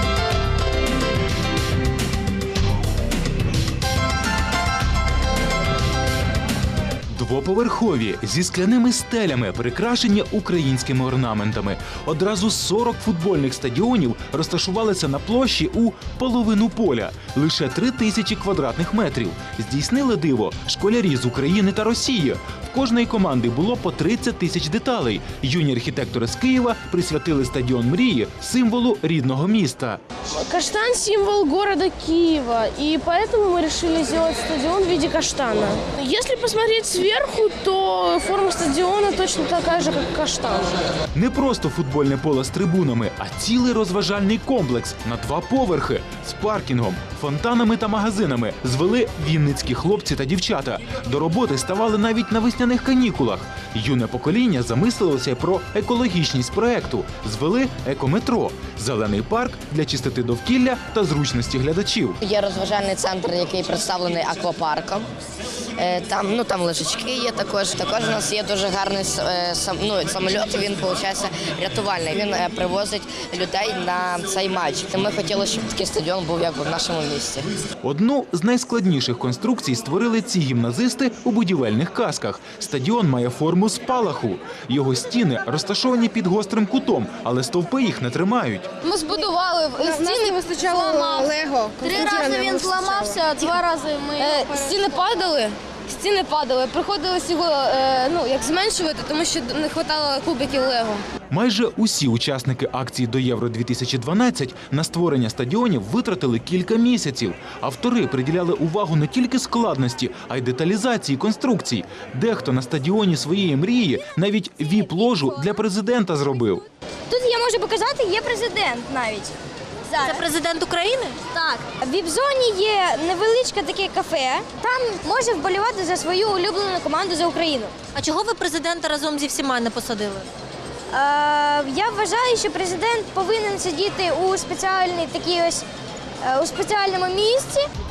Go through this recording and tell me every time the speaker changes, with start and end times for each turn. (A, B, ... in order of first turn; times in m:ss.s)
0:07.1-0:30.0 A
0:30.4-0:40.8 B
0:41.1-1:02.2 A
1:02.2-1:05.1 C
1:05.8-1:17.5 C
1:17.8-1:28.7 A
1:28.8-1:41.0 D
1:29.8-1:30.2 B
1:31.8-1:33.0 E
1:31.9-1:33.1 F
1:32.2-1:32.4 B
1:41.3-1:56.6 A
1:57.1-1:59.4 E
1:59.9-2:00.3 E
2:00.0-2:01.2 F
2:01.3-2:07.8 E
2:07.9-2:10.3 F
2:10.9-2:15.6 E
2:16.2-2:17.7 E